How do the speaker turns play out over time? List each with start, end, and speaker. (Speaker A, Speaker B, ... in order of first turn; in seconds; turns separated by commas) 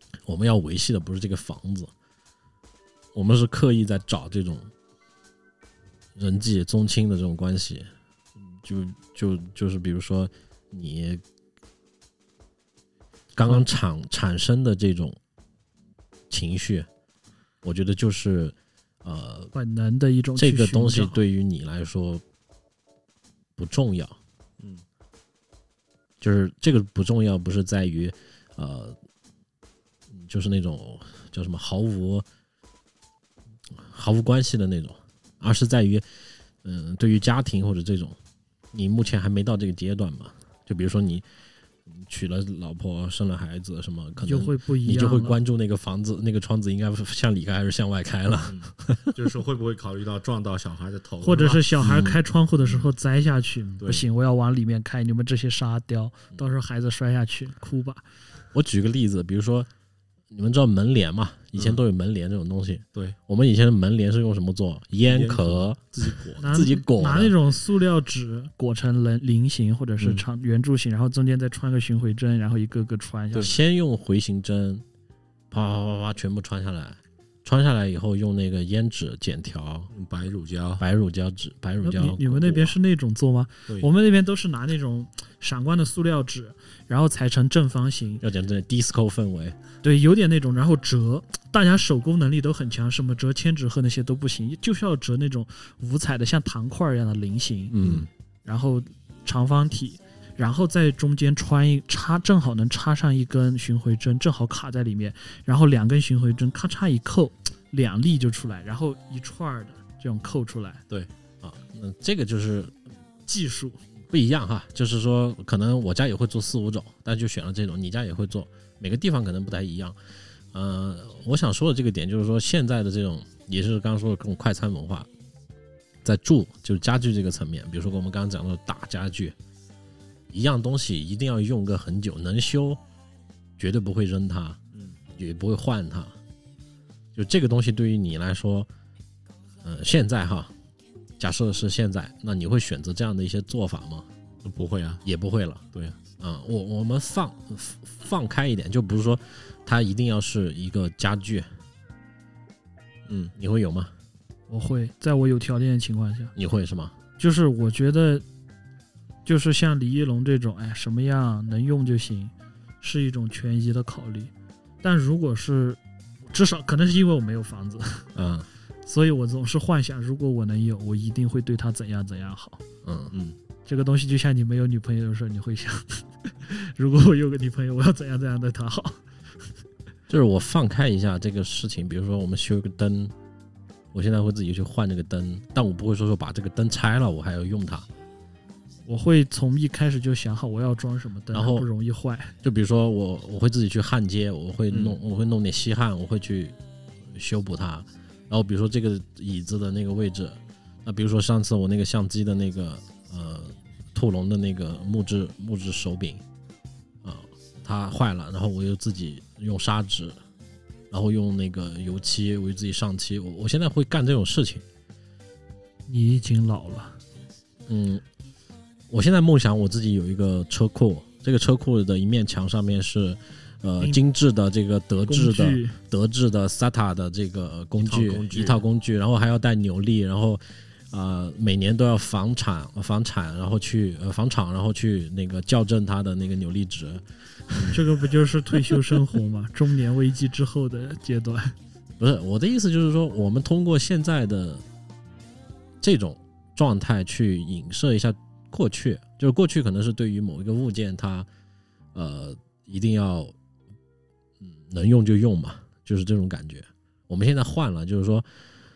Speaker A: 0.2-1.9, Speaker A: 3.1-4.7, Speaker A: 6.2-11.2, Speaker A: 13.3-15.2, Speaker A: 16.3-16.9, Speaker A: 17.6-19.5, Speaker B: 19.5-21.2, Speaker A: 20.4-22.2, Speaker A: 23.6-24.2, Speaker A: 26.2-29.0, Speaker A: 30.1-32.3, Speaker A: 33.7-36.1, Speaker A: 36.6-38.2, Speaker A: 38.7-41.2, Speaker A: 41.9-49.1, Speaker B: 44.2-45.4, Speaker C: 48.5-51.7, Speaker B: 51.2-58.0, Speaker A: 51.8-52.2, Speaker C: 53.8-54.0, Speaker A: 58.5-59.7, Speaker A: 60.3-65.8, Speaker C: 61.6-61.8, Speaker C: 65.0-66.7, Speaker B: 66.4-73.6, Speaker A: 66.4-67.4, Speaker A: 73.3-74.8, Speaker A: 75.5-79.9, Speaker C: 79.9-80.8, Speaker A: 80.8-82.8, Speaker B: 81.8-88.2, Speaker A: 88.2-89.6, Speaker B: 89.8-97.8, Speaker A: 97.7-98.1, Speaker B: 98.5-110.8, Speaker A: 111.4-112.8, Speaker B: 113.3-113.8, Speaker A: 114.1-120.0, Speaker A: 120.5-125.1, Speaker A: 126.0-129.4, Speaker A: 130.3-132.8, Speaker A: 133.6-134.6, Speaker C: 134.7-135.0, Speaker A: 135.2-136.2, Speaker A: 137.2-138.7, Speaker A: 139.6-140.5, Speaker A: 141.2-144.1, Speaker C: 144.4-145.0, Speaker A: 145.0-145.6, Speaker A: 146.2-151.5, Speaker C: 153.1-153.3, Speaker A: 153.4-153.9, Speaker B: 154.5-156.3, Speaker A: 156.4-156.9, Speaker B: 157.2-158.2, Speaker B: 159.3-168.1, Speaker A: 168.2-168.5, Speaker B: 168.9-172.6, Speaker A: 172.8-173.1, Speaker C: 173.1-173.4, Speaker B: 173.7-179.0, Speaker A: 180.1-183.1, Speaker A: 183.9-187.9, Speaker B: 188.9-192.3, Speaker A: 191.3-191.7, Speaker A: 192.4-206.2, Speaker C: 194.7-195.0, Speaker A: 207.0-210.2, Speaker A: 210.9-214.7, Speaker B: 215.9-217.0, Speaker A: 217.7-218.0, Speaker A: 218.9-237.9, Speaker B: 225.1-225.8, Speaker C: 227.8-228.6, Speaker B: 237.7-241.6, Speaker A: 238.7-239.0, Speaker A: 242.0-244.6, Speaker A: 245.8-251.3, Speaker A: 251.9-253.3, Speaker A: 254.4-258.3